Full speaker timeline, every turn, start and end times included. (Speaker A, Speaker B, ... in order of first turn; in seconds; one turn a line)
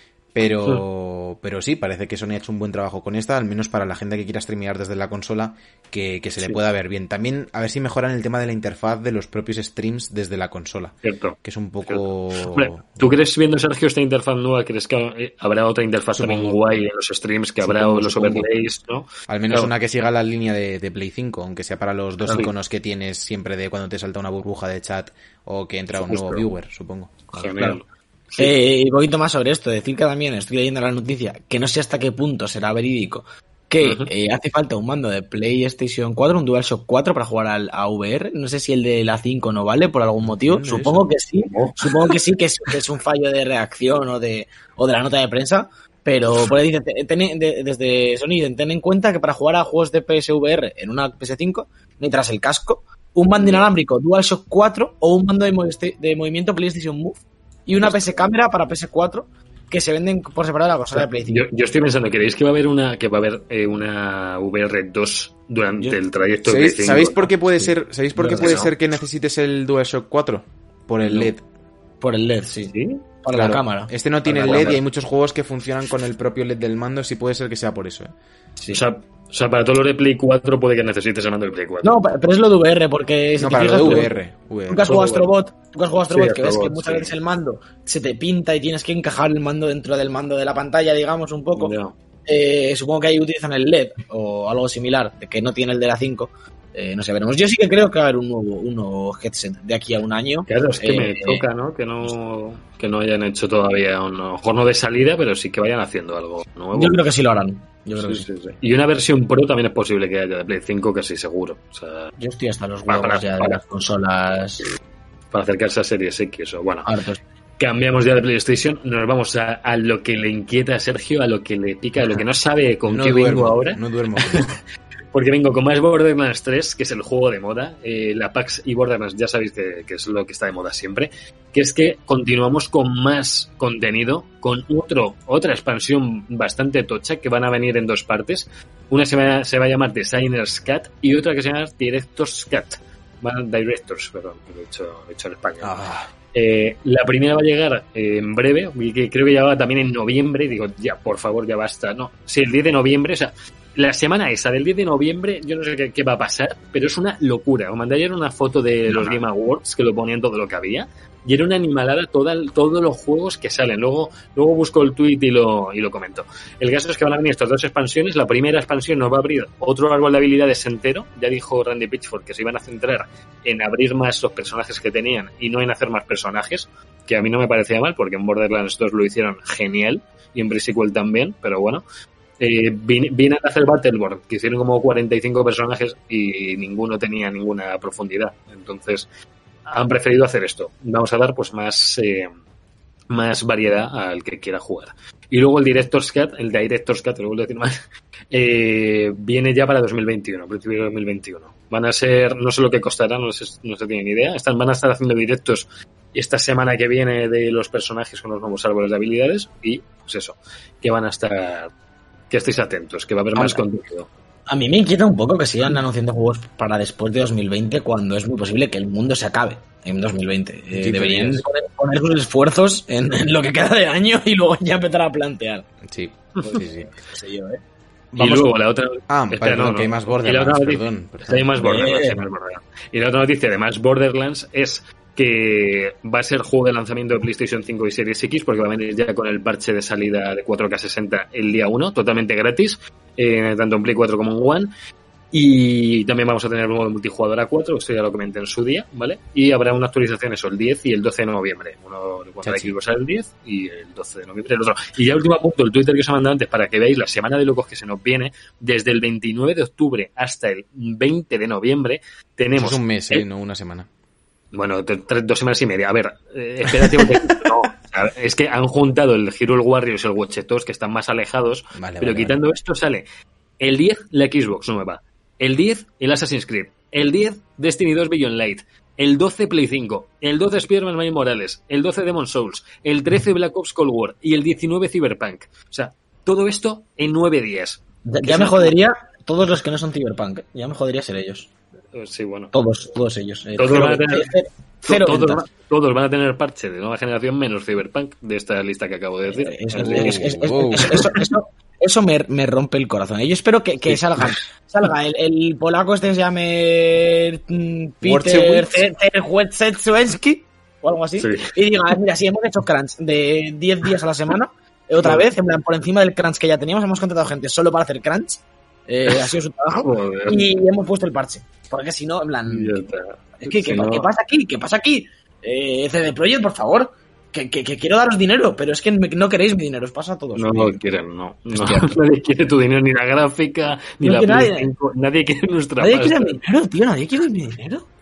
Speaker A: 0.3-13.2
Speaker B: 11.1-19.7
Speaker A: 16.1-16.6
Speaker A: 17.6-18.5
Speaker A: 19.3-27.3
Speaker B: 26.0-26.4
Speaker C: 27.3-27.8
Speaker B: 27.4-28.5
Speaker C: 28.4-61.5
Speaker B: 33.8-34.1
Speaker A: 40.2-41.0
Speaker B: 41.5-42.2
Speaker B: 53.4-53.6
Speaker B: 61.0-67.4
Speaker A: 66.5-71.4
Speaker C: 68.2-68.7
Speaker B: 68.3-68.7
Speaker C: 72.0-74.8
Speaker B: 72.7-73.0
Speaker A: 73.3-78.1
Speaker B: 74.4-74.8
Speaker B: 78.7-81.9
Speaker C: 81.8-84.1
Speaker A: 83.4-85.0
Speaker B: 83.8-84.1
Speaker C: 84.7-91.7
Speaker B: 84.9-85.3
Speaker B: 86.1-87.1
Speaker B: 91.6-91.9
Speaker C: 92.3-101.4
Speaker B: 100.5-107.0
Speaker C: 106.7-108.3
Speaker B: 108.0-112.1
Speaker C: 112.2-114.7
Speaker B: 112.9-113.6
Speaker B: 115.3-116.9
Speaker C: 116.8-117.2
Speaker B: 117.6-124.5
Speaker A: 122.9-124.5
Speaker B: 125.1-145.8
Speaker A: 145.6-146.1
Speaker B: 146.3-181.8
Speaker B: 182.4-189.1
Speaker B: 189.7-192.3
Speaker B: 193.1-197.8
Speaker B: 198.3-211.7
Speaker B: 212.3-214.1
Speaker C: 213.3-213.6
Speaker C: 214.5-225.7
Speaker A: 220.7-221.4
Speaker A: 225.8-226.9
Speaker C: 226.5-227.6
Speaker A: 228.1-228.5
Speaker B: 228.2-244.7
Speaker A: 229.1-231.5
Speaker C: 231.6-232.2
Speaker B: 245.3-263.2
Speaker A: 252.4-252.7
Speaker A: 262.6-263.9
Speaker B: 264.5-273.0
Speaker A: 266.8-267.5
Speaker A: 271.8-272.4
Speaker B: 273.6-288.8
Speaker C: 288.1-291.5
Speaker B: 291.9-292.5
Speaker C: 292.5-295.4
Speaker B: 293.6-294.3
Speaker B: 294.9-301.2
Speaker C: 299.4-322.9
Speaker A: 299.8-301.1
Speaker B: 303.9-304.4
Speaker A: 308.0-308.8
Speaker B: 311.2-311.5
Speaker B: 315.0-315.3
Speaker B: 319.1-320.4
Speaker B: 322.5-324.1
Speaker C: 323.4-330.8
Speaker B: 330.4-336.4
Speaker A: 331.6-331.9
Speaker C: 331.6-331.9
Speaker C: 334.0-334.7
Speaker C: 335.8-337.9